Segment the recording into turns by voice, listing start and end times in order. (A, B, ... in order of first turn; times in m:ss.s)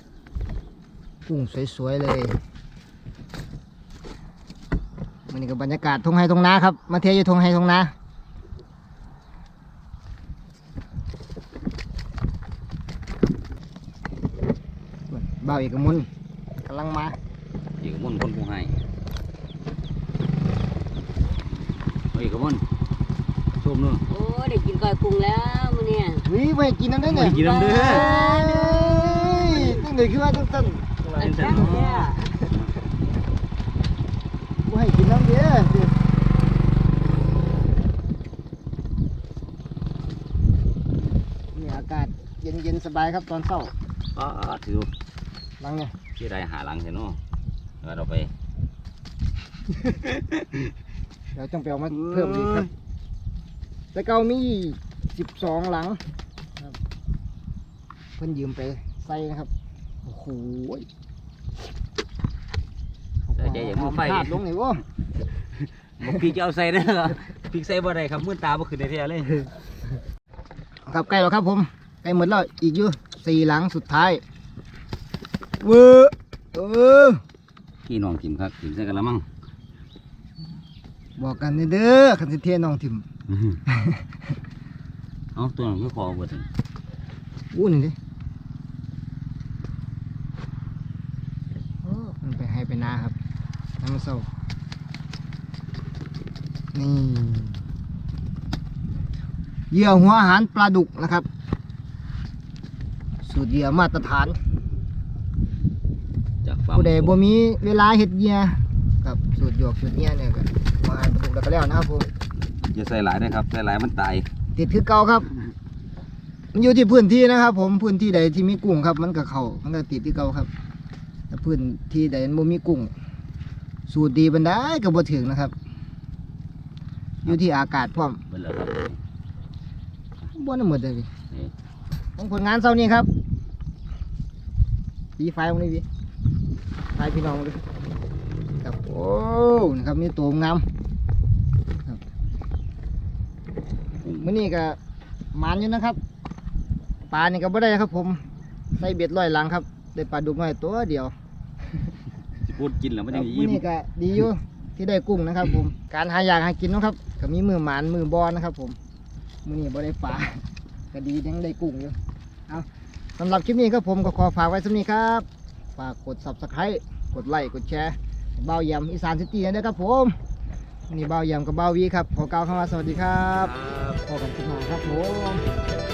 0:01.2-0:02.4 A
0:05.3-0:07.9 A
0:15.1-0:16.1 A
0:16.6-0:17.2 A
0:17.8-0:18.8 B
0:22.1-0:22.6 B
0:23.6-0:24.0 B
0:24.1-0:26.2 C
0:26.2-0:30.9 A
0:27.0-0:28.1 B
0:27.1-0:29.8 C
0:31.0-0:32.7 B
0:31.2-0:32.4 C
0:34.6-0:35.9 A
0:41.5-0:43.7 A
0:44.1-0:44.9 B
0:45.6-0:46.0 A
0:46.2-0:47.2 B
0:47.8-0:48.3 B
0:49.8-0:50.6 B
0:51.3-0:52.7 A
0:52.0-0:52.7 B
0:53.9-0:56.0 A
0:58.2-0:59.5 A
1:00.0-1:00.9 A
1:03.3-1:04.8 A
1:03.3-1:04.4 B
1:05.6-1:09.5 B
1:10.9-1:14.2 A
1:15.6-1:17.2 A
1:17.8-1:19.3 B
1:21.2-1:23.0 A
1:23.7-1:24.0 A
1:25.3-1:26.5 B
1:27.5-1:28.0 A
1:31.8-1:33.2 A
1:33.8-1:34.3 A
1:36.7-1:37.6 A
1:39.7-1:41.2 A
1:43.2-1:44.4 A
1:46.4-1:47.2 B
1:46.7-1:52.1 A
1:52.7-1:54.3 B
1:54.6-1:55.3 A
1:56.5-2:00.5 A
2:01.3-2:02.9 A
2:03.9-2:05.5 A
2:07.2-2:08.2 A
2:08.3-2:09.0 B
2:10.3-2:11.1 A
2:12.2-2:13.1 A
2:15.2-2:15.8 A
2:16.9-2:17.6 A
2:18.6-2:20.6 A
2:24.1-2:24.8 A
2:25.3-2:26.0 A
2:27.1-2:28.2 A
2:28.8-2:31.1 A
2:32.4-2:33.6 B
2:33.1-2:38.8 A
2:39.4-2:42.0 A
2:42.5-2:45.2 A
2:45.8-2:50.1 A
2:50.9-2:55.4 A
2:53.5-2:53.8 B